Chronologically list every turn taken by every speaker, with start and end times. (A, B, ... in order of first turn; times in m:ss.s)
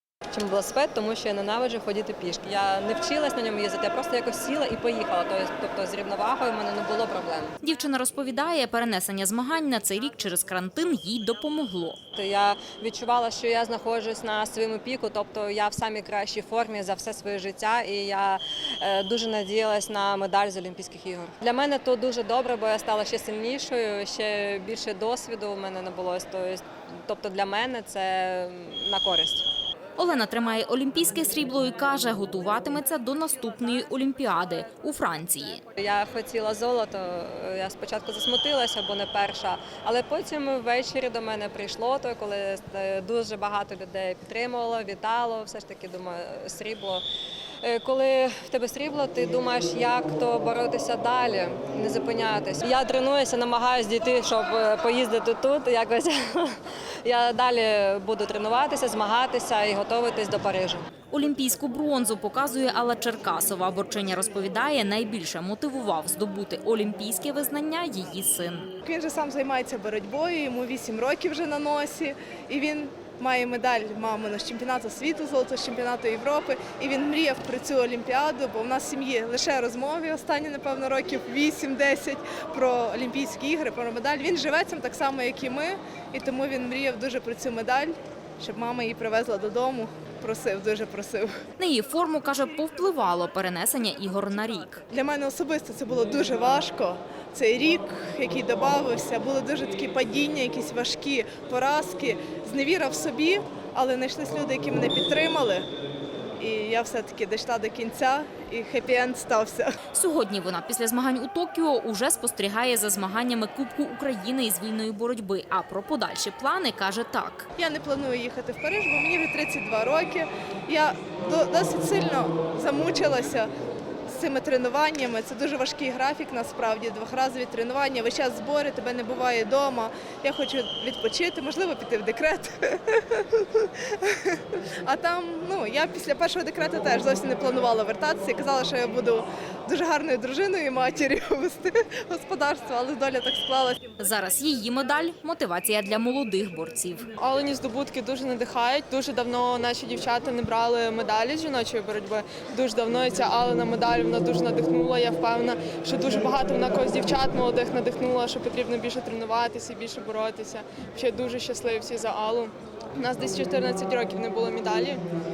0:00.3-0:07.5 A
0:07.6-0:12.0 B
0:12.2-0:29.4 A
0:30.0-0:35.6 B
0:35.8-0:47.0 A
0:47.6-1:00.8 A
1:01.1-1:08.7 B
1:08.8-1:31.3 C
1:31.6-1:34.8 B
1:34.9-1:45.7 C
1:46.4-1:49.7 C
1:49.9-1:57.5 B
1:57.6-2:03.5 C
2:04.1-2:23.8 C
2:24.0-2:27.1 B
2:27.2-2:45.0 D